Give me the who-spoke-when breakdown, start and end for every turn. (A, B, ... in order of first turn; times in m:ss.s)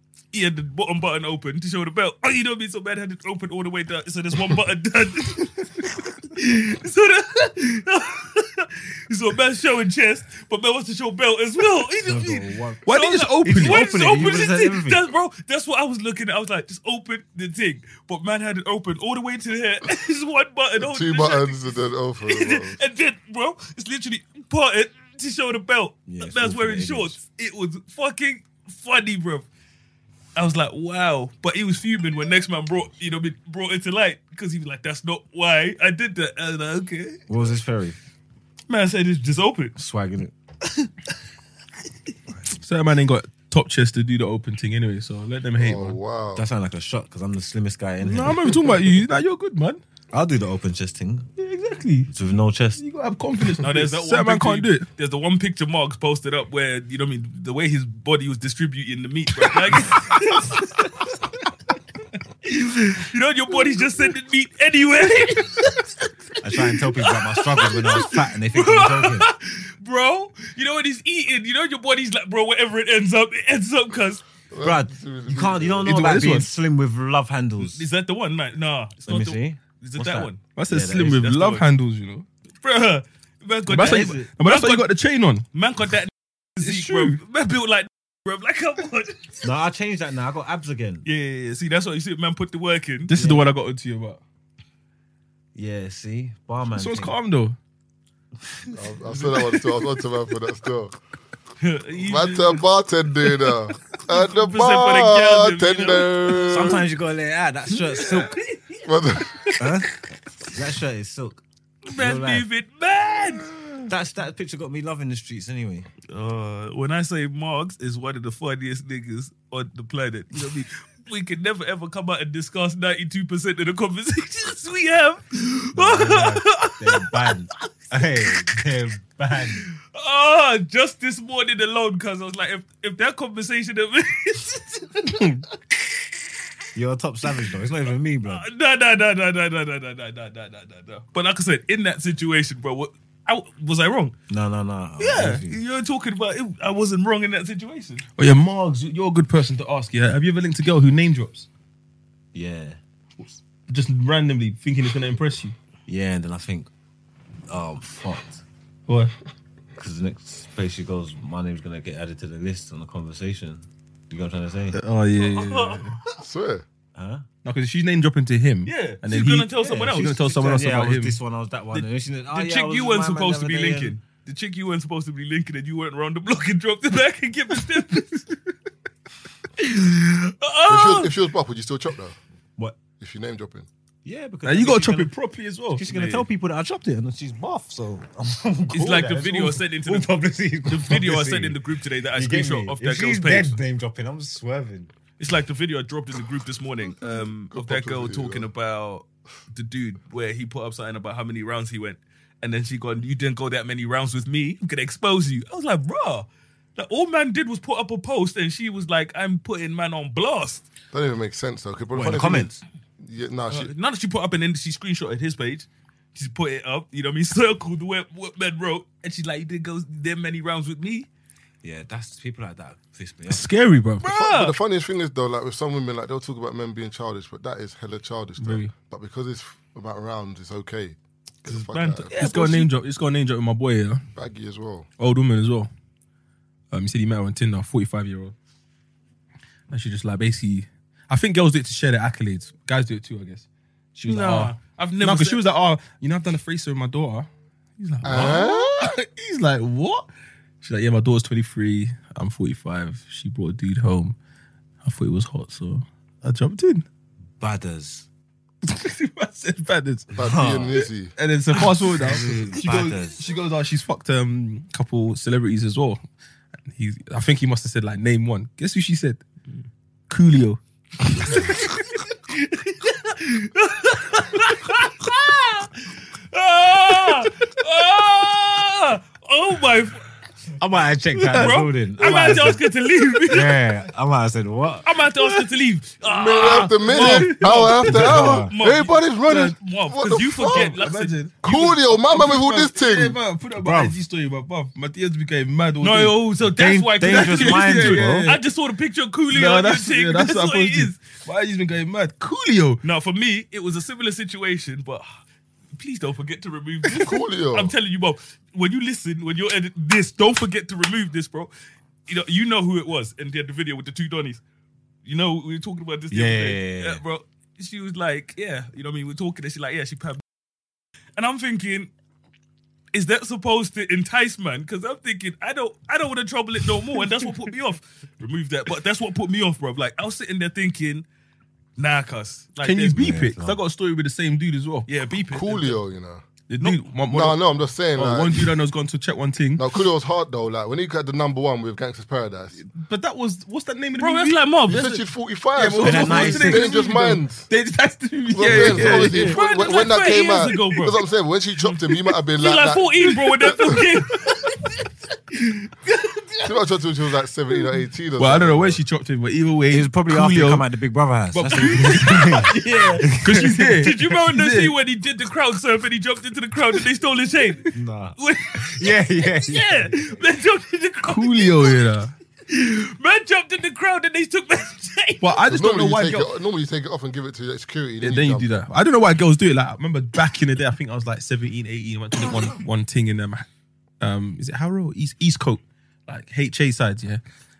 0:00.3-0:21.5 A
0:12.0-0:12.8 B
0:12.8-0:13.8 C
0:13.4-0:15.0 B
0:20.8-0:22.8 D
0:22.3-0:29.4 A
0:26.1-0:27.2 B
0:30.4-0:37.2 A
0:37.3-0:38.0 B
0:38.7-0:39.7 A
0:39.8-0:40.3 B
0:42.6-0:46.0 C
0:45.6-0:46.4 D
0:46.3-0:48.8 B
0:48.0-0:49.8 C
0:50.1-0:51.3 B
0:51.4-0:52.1 C
0:52.1-0:52.8 B
0:52.8-0:54.8 C
0:53.6-1:00.9 A
0:59.3-1:00.4 C
1:02.4-1:05.8 A
1:06.4-1:09.3 B
1:07.0-1:14.2 A
1:14.5-1:16.0 D
1:14.6-1:17.8 B
1:15.8-1:16.5 C
1:17.6-1:20.5 A
1:19.1-1:21.4 B
1:20.5-1:22.2 C
1:21.2-1:21.6 A
1:22.6-1:24.9 A
1:23.7-1:25.4 C
1:23.7-1:24.3 B
1:25.5-1:29.4 A
1:26.6-1:27.2 C
1:29.4-1:31.0 B
1:31.0-1:33.1 A
1:33.1-1:34.2 C
1:33.1-1:33.4 B
1:35.6-1:37.2 B
1:36.7-1:37.6 C
1:38.7-1:40.9 D
1:41.6-1:42.6 A
1:42.0-1:46.8 D
1:44.1-1:46.4 A
1:46.5-1:48.3 B
1:47.9-1:48.8 A
1:48.8-1:49.3 D
1:49.6-1:49.9 B
1:50.4-1:51.4 B
1:51.9-1:53.5 A
1:51.9-1:52.4 B
1:53.9-1:55.9 B
1:56.1-2:07.3 A
2:05.7-2:09.7 B
2:09.6-2:15.1 A
2:15.0-2:15.4 C
2:16.7-2:18.4 B
2:18.2-2:24.1 A
2:24.3-2:25.6 B
2:25.0-2:28.0 A
2:28.2-2:31.5 C
2:32.3-2:32.8 B
2:33.2-2:35.6 C
2:35.9-2:36.7 B
2:37.5-2:38.4 B
2:38.9-2:39.1 C
2:39.8-2:44.8 B
2:44.7-2:46.0 C
2:45.2-2:45.9 A
2:46.2-2:46.6 D
2:46.9-2:47.2 B
2:47.4-2:51.2 C
2:48.6-2:50.1 A
2:49.6-2:54.0 B
2:51.7-2:58.3 A
2:59.6-3:01.1 A
3:00.6-3:02.2 D
3:03.0-3:03.7 D
3:04.0-3:05.1 B
3:04.4-3:06.2 C
3:05.7-3:11.6 B
3:08.7-3:10.1 A
3:10.7-3:13.6 A
3:12.2-3:14.9 B
3:15.2-3:30.6 A
3:17.5-3:18.5 D
3:30.9-3:33.7 D
3:31.9-3:32.6 B
3:33.5-3:41.1 A
3:41.6-3:43.5 B
3:43.3-3:44.0 C
3:44.0-3:44.6 A
3:44.0-3:52.1 D
3:48.4-3:48.7 C
3:51.4-3:52.7 A
3:52.1-3:54.0 C
3:54.1-3:54.9 D
3:55.0-3:55.7 C
3:56.7-3:58.3 C
3:59.7-4:10.1 C
4:04.0-4:05.4 A
4:08.0-4:09.0 D
4:10.6-4:14.2 C
4:14.8-4:16.8 C
4:17.4-4:18.1 B
4:18.6-4:20.1 C
4:20.1-4:21.1 D
4:20.2-4:20.8 B
4:21.2-4:26.0 C
4:21.5-4:23.3 B
4:26.7-4:29.2 C
4:30.1-4:31.7 C
4:32.3-4:40.0 A
4:40.6-4:42.6 B
4:41.2-4:43.6 A
4:43.3-4:44.9 B
4:44.8-4:51.4 A
4:46.0-4:50.7 D
4:46.9-4:48.1 C
4:47.9-4:48.5 B
4:50.1-4:56.2 C
4:51.4-4:53.2 D
4:53.6-4:54.0 B
4:55.8-5:01.0 A
4:56.5-4:58.2 B
4:57.0-4:58.4 C
4:59.3-5:02.8 C
5:02.8-5:05.1 A
5:05.8-5:11.5 A
5:06.9-5:07.7 D
5:12.1-5:14.4 A
5:15.0-5:20.2 A
5:16.1-5:17.0 B
5:21.2-5:21.9 A
5:22.9-5:31.0 A
5:31.8-5:33.0 A
5:32.6-5:34.9 C
5:33.0-5:33.6 B
5:34.9-5:35.8 A
5:35.3-5:36.2 D
5:36.5-5:37.4 C
5:37.1-5:38.5 D
5:38.0-5:39.6 C
5:39.6-5:42.6 D
5:42.5-5:45.0 C
5:44.0-5:44.8 A
5:44.7-5:47.5 D
5:45.5-5:49.4 C
5:45.8-5:46.7 B
5:48.3-5:53.8 D
5:48.5-5:51.0 A
5:51.6-5:54.7 A
5:55.3-5:56.3 A
5:56.4-5:58.8 D
5:58.2-6:00.7 C
5:59.7-6:03.8 B
6:01.3-6:04.7 C
6:02.4-6:03.1 A
6:03.8-6:11.8 A
6:07.7-6:10.1 B
6:11.1-6:12.1 C
6:12.5-6:15.4 A
6:15.2-6:16.3 C
6:15.5-6:18.5 D
6:18.0-6:23.4 C
6:24.0-6:27.2 C